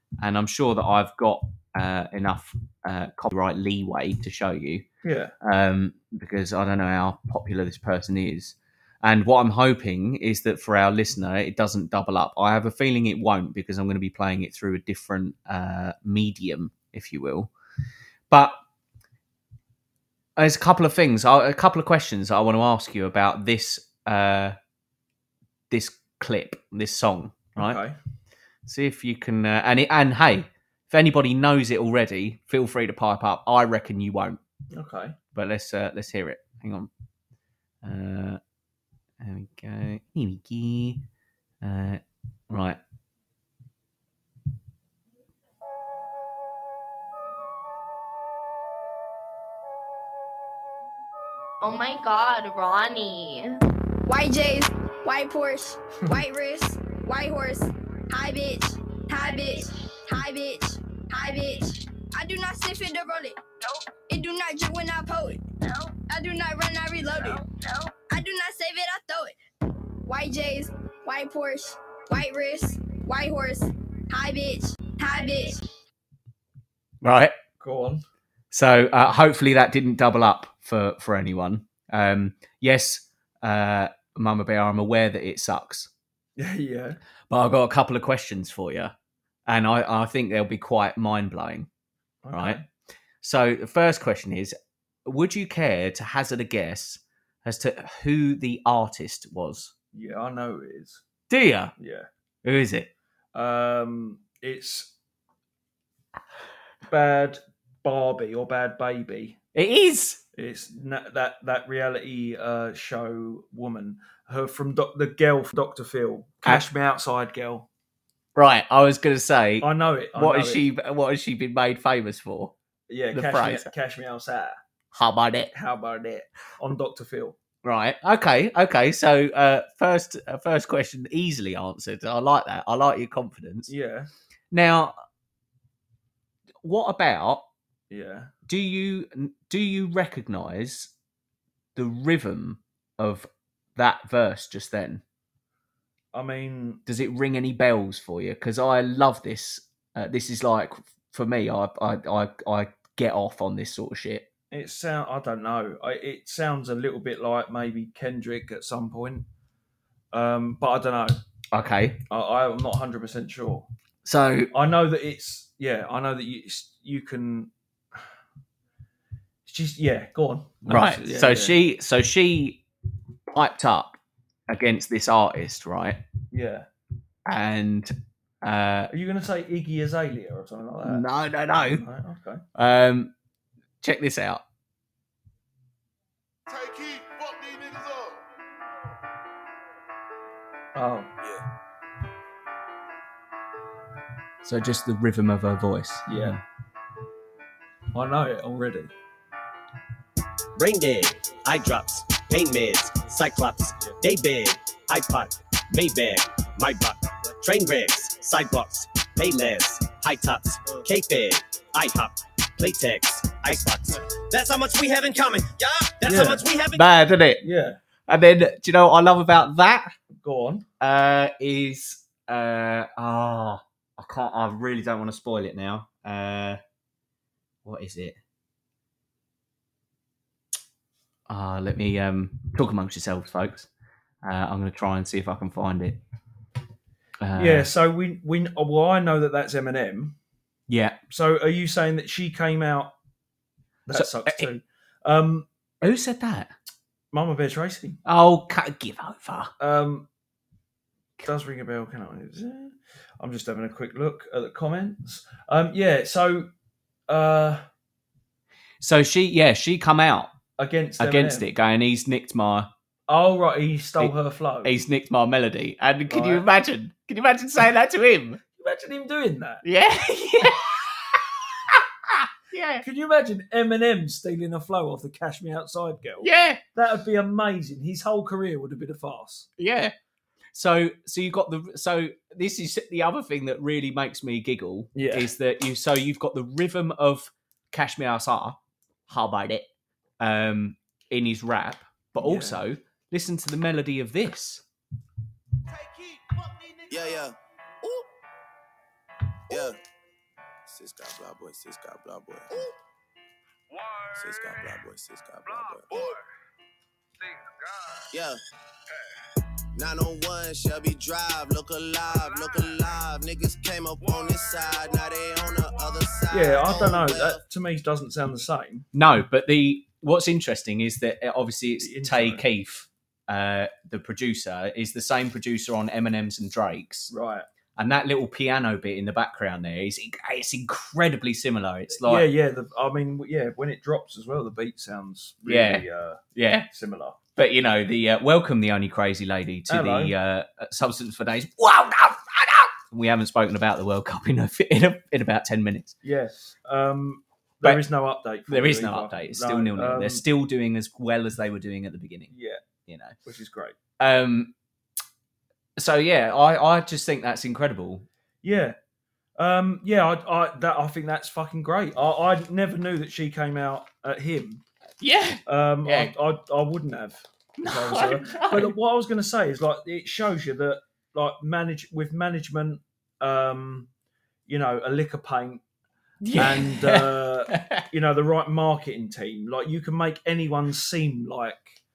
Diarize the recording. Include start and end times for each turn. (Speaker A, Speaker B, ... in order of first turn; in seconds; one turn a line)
Speaker A: 0.2-4.8
Speaker B: 5.0-5.3
Speaker A: 5.4-17.5
Speaker A: 18.3-18.6
Speaker A: 20.4-24.6
Speaker A: 25.7-27.8
Speaker B: 27.6-27.9
Speaker A: 28.6-34.4
Speaker B: 34.7-35.1
Speaker A: 35.3-36.9
Speaker A: 37.8-38.4
Speaker A: 39.2-41.0
Speaker A: 41.6-42.8
Speaker C: 51.6-53.6
Speaker D: 54.0-69.3
Speaker D: 70.0-75.6
Speaker A: 77.0-77.3
Speaker B: 77.6-78.0
Speaker A: 78.5-85.9
Speaker B: 86.4-87.0
Speaker A: 87.3-88.9
Speaker A: 89.5-91.7
Speaker B: 92.2-92.6
Speaker A: 92.3-92.6
Speaker A: 93.2-94.5
Speaker A: 95.0-99.7
Speaker B: 99.9-101.0
Speaker A: 101.3-101.7
Speaker B: 101.8-102.1
Speaker A: 102.4-102.9
Speaker B: 103.3-104.9
Speaker B: 106.9-109.4
Speaker A: 109.5-110.2
Speaker B: 110.3-117.7
Speaker A: 118.3-122.5
Speaker B: 119.6-120.6
Speaker B: 122.9-124.6
Speaker A: 123.1-123.7
Speaker A: 124.9-125.5
Speaker B: 125.5-127.3
Speaker A: 127.6-133.7
Speaker B: 133.7-134.1
Speaker A: 134.5-134.9
Speaker A: 136.6-137.4
Speaker B: 137.9-138.3
Speaker A: 138.5-140.9
Speaker A: 141.7-145.0
Speaker B: 146.1-146.8
Speaker A: 146.9-154.3
Speaker B: 154.5-159.2
Speaker B: 160.1-161.2
Speaker A: 161.5-162.0
Speaker B: 162.1-163.7
Speaker A: 164.0-164.5
Speaker B: 164.5-167.5
Speaker B: 169.4-171.6
Speaker A: 170.6-172.6
Speaker A: 173.3-176.0
Speaker B: 176.3-176.7
Speaker A: 177.2-178.9
Speaker B: 178.9-181.1
Speaker A: 180.8-181.8
Speaker B: 181.6-182.4
Speaker A: 182.5-183.1
Speaker A: 183.8-184.4
Speaker E: 186.5-188.2
Speaker B: 190.8-191.1
Speaker A: 194.4-196.4
Speaker B: 196.1-196.4
Speaker B: 197.9-198.9
Speaker F: 200.6-216.8
Speaker B: 216.0-216.4
Speaker A: 216.7-217.4
Speaker B: 217.4-217.8
Speaker A: 218.1-219.9
Speaker B: 220.2-220.6
Speaker A: 220.8-226.6
Speaker A: 227.6-228.2
Speaker A: 231.3-233.7
Speaker A: 234.2-236.0
Speaker A: 237.2-237.7
Speaker B: 237.3-240.2
Speaker A: 240.7-241.0
Speaker B: 241.1-242.9
Speaker B: 243.9-245.5
Speaker A: 243.9-244.5
Speaker A: 245.8-246.5
Speaker B: 247.1-248.0
Speaker A: 248.0-249.5
Speaker B: 249.6-250.1
Speaker B: 251.2-256.5
Speaker B: 257.1-257.6
Speaker A: 258.8-260.3
Speaker B: 260.6-261.4
Speaker A: 261.0-262.7
Speaker B: 263.1-264.7
Speaker A: 264.0-268.4
Speaker B: 266.1-266.4
Speaker B: 268.6-269.6
Speaker A: 269.6-272.8
Speaker B: 272.8-279.5
Speaker A: 276.2-276.6
Speaker A: 279.6-279.9
Speaker A: 280.5-289.7
Speaker B: 284.9-285.3
Speaker A: 290.2-294.6
Speaker B: 292.2-292.6
Speaker E: 295.7-297.3
Speaker G: 296.9-297.3
Speaker G: 299.5-299.8
Speaker E: 299.5-299.8
Speaker G: 300.7-302.6
Speaker E: 303.7-304.8
Speaker G: 304.2-306.1
Speaker E: 305.4-306.2
Speaker E: 307.2-308.1
Speaker G: 308.1-308.4
Speaker G: 309.8-317.4
Speaker E: 312.1-312.9
Speaker E: 314.0-316.2
Speaker B: 316.3-318.8
Speaker A: 318.9-327.1
Speaker B: 321.8-322.4
Speaker B: 327.1-327.4
Speaker A: 327.8-332.3
Speaker B: 332.0-337.2
Speaker A: 335.4-335.8
Speaker A: 336.4-336.7
Speaker A: 337.4-345.9
Speaker B: 339.7-340.1
Speaker B: 346.0-350.2
Speaker A: 348.5-352.3
Speaker B: 352.3-352.6
Speaker A: 352.8-353.1
Speaker B: 353.2-353.7
Speaker A: 354.0-354.5
Speaker A: 355.8-358.1
Speaker B: 358.4-358.7
Speaker B: 359.4-364.6
Speaker A: 365.0-366.1
Speaker B: 365.4-373.9
Speaker A: 367.6-368.7
Speaker B: 374.5-375.6
Speaker A: 376.2-377.8
Speaker B: 376.3-381.8